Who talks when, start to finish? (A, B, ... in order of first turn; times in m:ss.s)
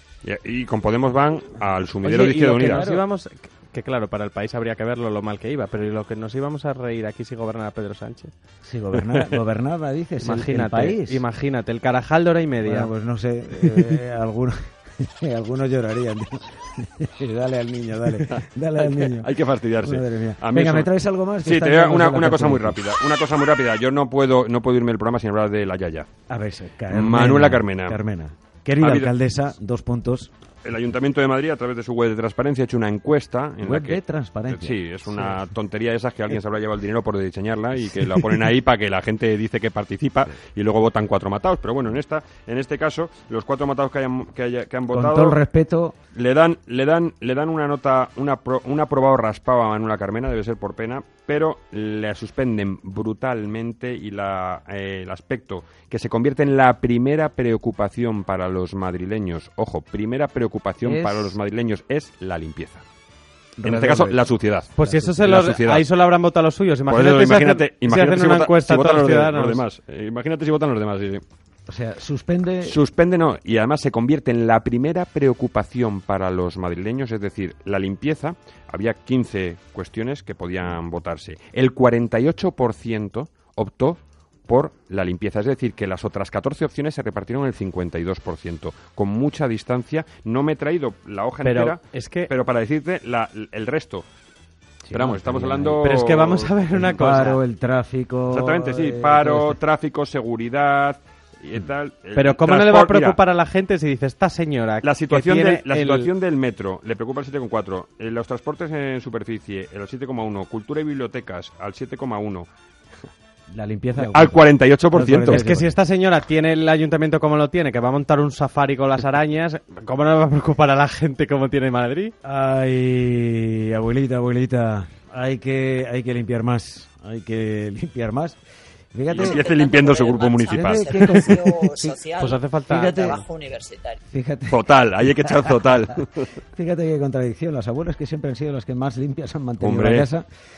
0:00.2-0:02.9 A
0:02.0-0:08.3 B
0:02.5-0:03.0 C
0:08.6-0:11.2 C
0:09.0-0:09.4 A
0:10.2-0:12.9 B
0:12.6-0:22.8 C
0:13.5-0:14.0 B
0:18.1-0:26.1 A
0:26.3-0:30.3 C
0:26.9-0:28.0 A
0:28.8-0:29.1 A
0:30.6-0:45.4 A
0:33.6-0:35.4 C
0:44.9-0:46.0 C
0:46.2-1:02.8 A
1:00.8-1:01.4 C
1:03.6-1:04.2 C
1:03.6-1:05.8 A
1:04.8-1:09.6 B
1:04.8-1:05.2 C
1:06.9-1:11.2 A
1:11.7-1:12.8 C
1:12.6-1:34.1 A
1:31.4-1:32.3 B
1:34.8-1:35.8 C
1:34.9-1:36.5 A
1:35.8-1:37.4 B
1:36.7-1:39.6 C
1:38.3-1:43.2 A
1:42.2-1:46.1 B
1:44.8-1:52.5 A
1:53.5-1:54.4 C
1:54.0-1:55.5 A
1:54.9-1:55.8 C
1:55.3-2:02.1 B
2:02.2-2:08.4 C
2:08.9-2:09.4 C
2:09.1-2:11.4 A
2:09.4-2:14.0 D
2:10.5-2:12.0 C
2:12.2-2:13.1 B
2:12.6-2:13.2 C
2:14.1-2:15.5 C
2:14.5-2:16.4 A
2:16.5-2:20.3 C
2:19.6-2:20.1 A